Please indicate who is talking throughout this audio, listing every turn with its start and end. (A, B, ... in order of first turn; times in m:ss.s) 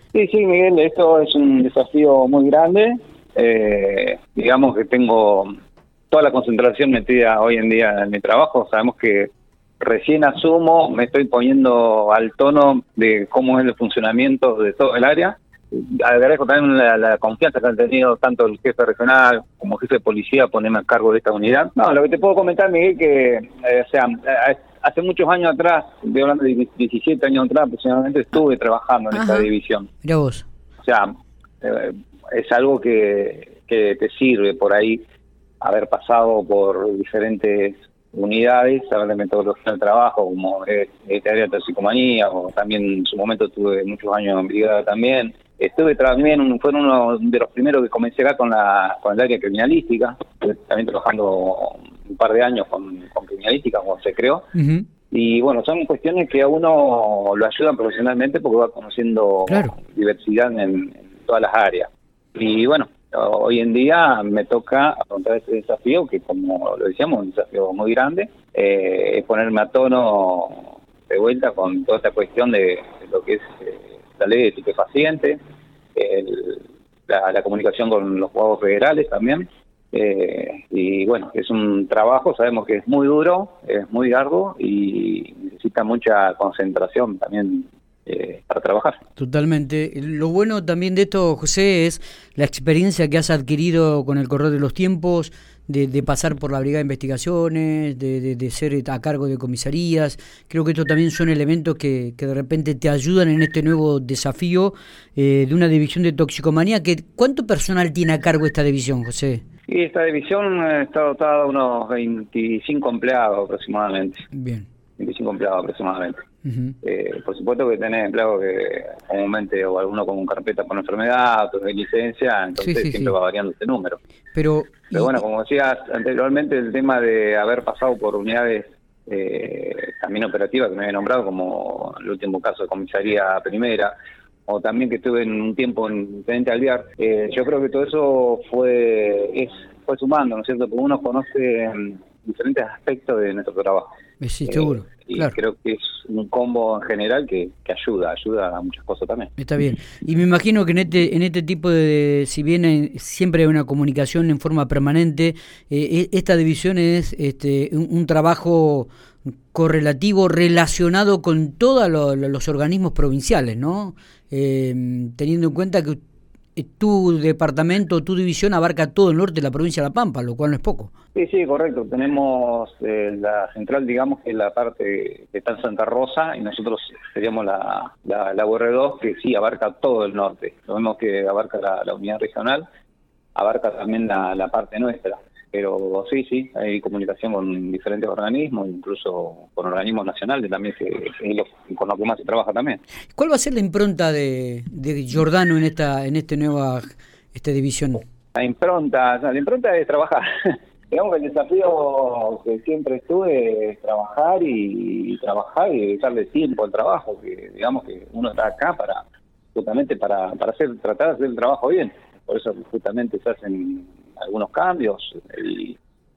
0:00.1-0:05.5 A
0:06.1-0:29.9 A
0:29.1-0:29.5 B
0:30.0-0:30.4 B
0:30.8-0:35.0 A
0:35.6-0:54.5 A
0:54.5-0:54.8 B
0:55.1-1:15.4 A
0:59.5-0:59.7 B
1:15.9-1:29.0 A
1:29.2-1:49.4 B
1:49.7-1:54.3 A
1:54.3-1:54.7 B
1:55.0-1:56.2 A
1:56.4-1:56.7 B
1:56.8-2:04.0 A
2:02.6-2:03.2 B
2:04.3-2:05.2 B
2:04.9-2:13.9 A
2:14.5-2:23.9 A
2:24.2-2:25.3 B
2:24.4-2:29.3 A
2:29.4-2:38.9 B
2:39.5-2:46.0 B
2:46.6-2:50.9 B
2:51.1-3:02.6 A
3:03.3-3:12.8 A
3:13.2-3:18.0 B
3:18.3-3:35.8 A